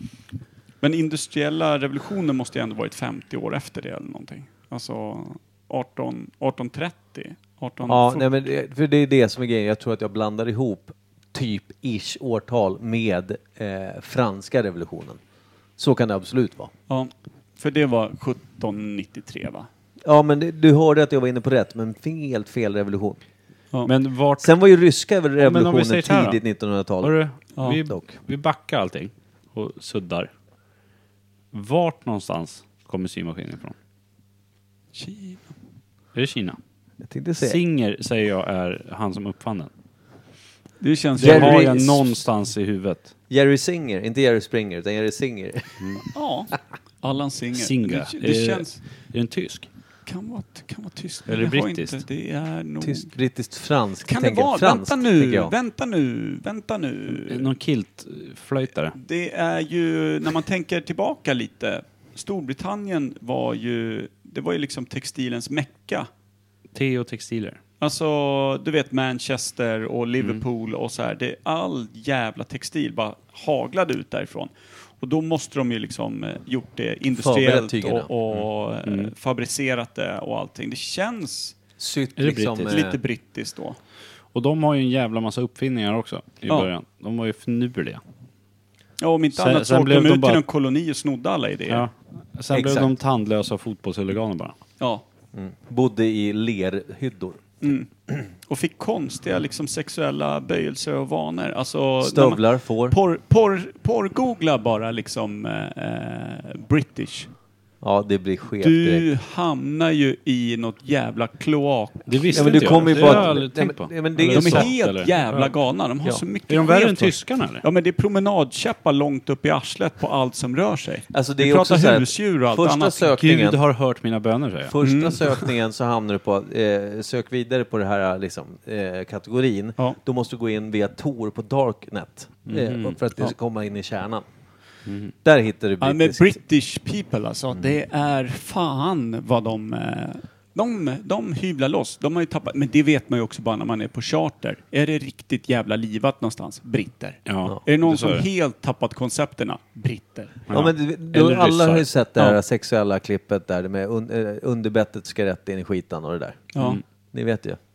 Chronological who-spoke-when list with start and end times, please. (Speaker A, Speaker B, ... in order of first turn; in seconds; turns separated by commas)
Speaker A: 0.8-8.3, Speaker B: 7.8-15.2, Speaker B: 15.8-16.7, Speaker A: 16.9-19.7, Speaker B: 20.0-23.2, Speaker C: 23.9-24.5, Speaker B: 24.4-27.2, Speaker C: 25.4-26.4, Speaker C: 27.0-30.3, Speaker B: 27.9-28.1, Speaker C: 31.5-33.8, Speaker A: 34.9-35.5, Speaker C: 36.1-36.6, Speaker B: 37.0-37.6, Speaker C: 37.4-39.7, Speaker A: 40.8-42.0, Speaker C: 41.2-43.1, Speaker B: 41.2-41.9, Speaker B: 43.3-46.0, Speaker A: 46.1-48.8, Speaker C: 47.5-49.7, Speaker A: 50.0-53.1, Speaker C: 51.3-52.0, Speaker B: 52.8-55.5, Speaker A: 54.0-57.5, Speaker C: 57.1-59.0, Speaker A: 59.0-66.1, Speaker C: 66.7-67.6, Speaker A: 67.8-81.5, Speaker B: 77.1-78.1, Speaker C: 78.3-79.1, Speaker B: 81.8-83.0, Speaker C: 82.2-82.7, Speaker A: 82.6-83.8, Speaker C: 84.3-88.0, Speaker A: 89.0-91.8, Speaker C: 89.3-90.4, Speaker C: 91.7-94.6, Speaker B: 92.5-92.9, Speaker B: 95.3-97.4, Speaker A: 97.6-107.3, Speaker B: 102.0-103.0, Speaker B: 107.8-109.0, Speaker A: 108.6-113.3, Speaker C: 112.1-115.5, Speaker B: 112.3-114.7, Speaker A: 114.3-123.1, Speaker C: 116.5-117.6, Speaker B: 121.1-123.6, Speaker C: 123.2-124.7, Speaker B: 124.7-134.2, Speaker A: 124.8-125.3, Speaker C: 132.5-133.0, Speaker C: 134.8-135.1, Speaker B: 135.2-136.3, Speaker A: 135.8-150.4, Speaker C: 147.2-148.2, Speaker C: 150.5-151.9, Speaker B: 150.5-156.5, Speaker A: 156.5-156.8, Speaker B: 157.1-157.6